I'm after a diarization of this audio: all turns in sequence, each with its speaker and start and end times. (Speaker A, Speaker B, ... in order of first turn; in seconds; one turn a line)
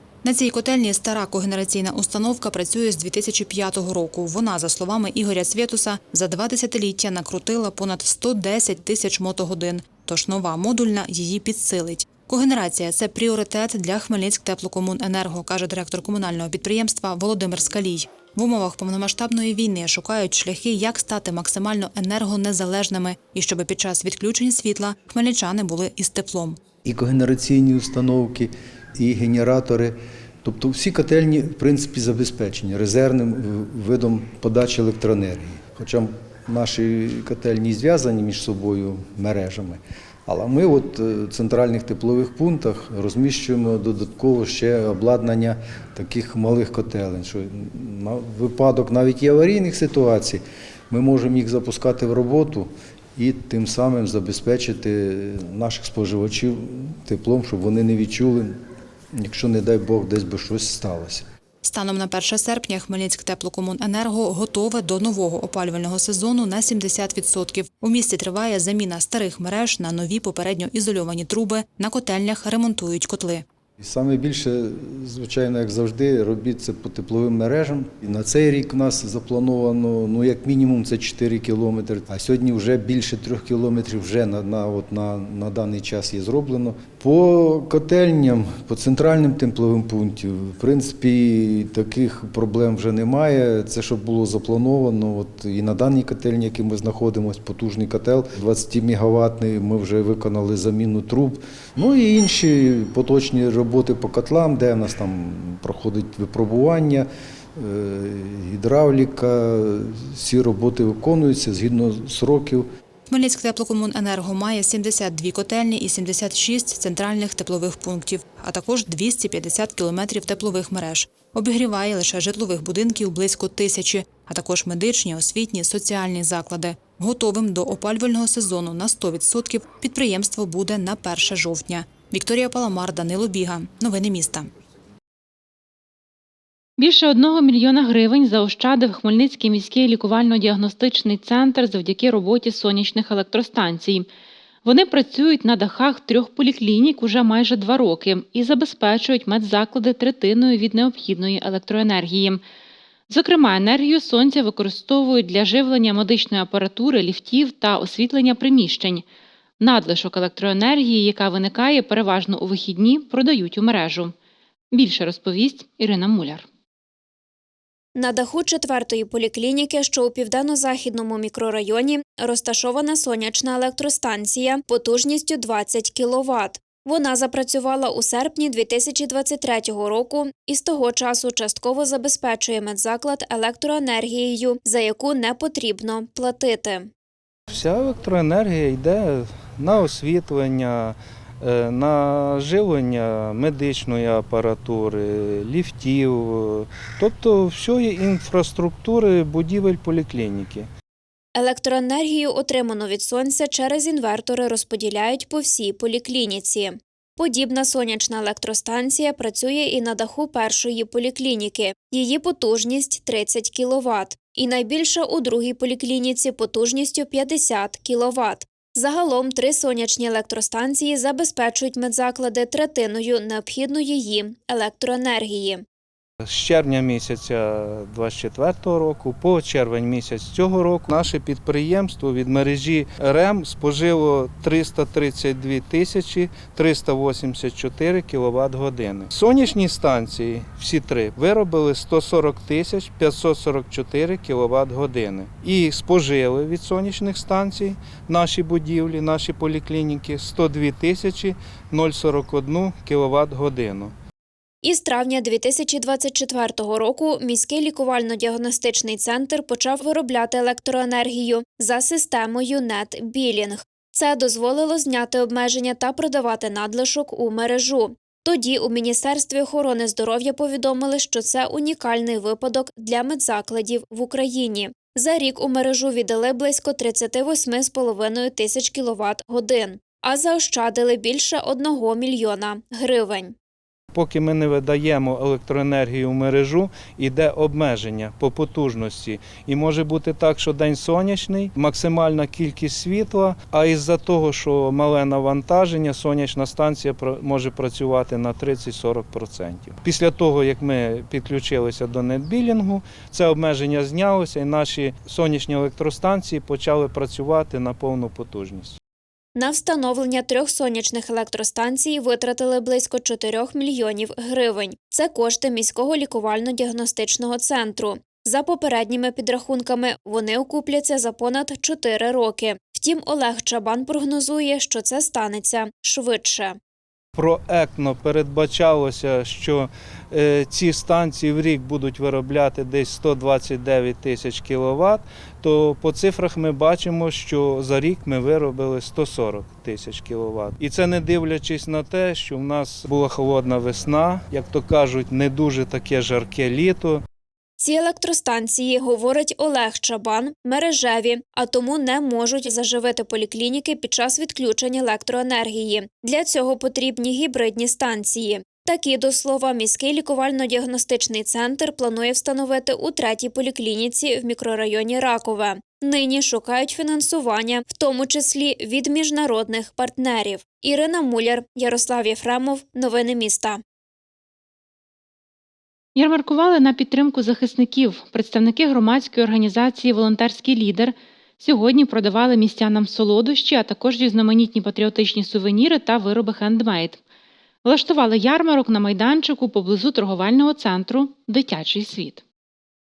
Speaker A: 0.2-26.6
Speaker B: 26.8-58.5
Speaker B: 59.1-61.2
Speaker A: 61.6-73.4
Speaker B: 73.8-112.7
Speaker A: 113.1-134.5
Speaker C: 136.8-144.1
Speaker C: 144.6-152.4
Speaker C: 153.1-159.0
Speaker C: 159.6-164.1
Speaker C: 164.7-166.4
Speaker D: 167.9-186.9
Speaker E: 187.5-200.7
Speaker D: 201.4-225.6
Speaker E: 226.2-253.9
Speaker D: 254.6-283.4
Speaker E: 283.9-308.8
Speaker D: 309.4-326.6
Speaker E: 327.1-347.0
Speaker D: 347.6-373.6
Speaker C: 375.9-387.0
Speaker C: 387.6-392.2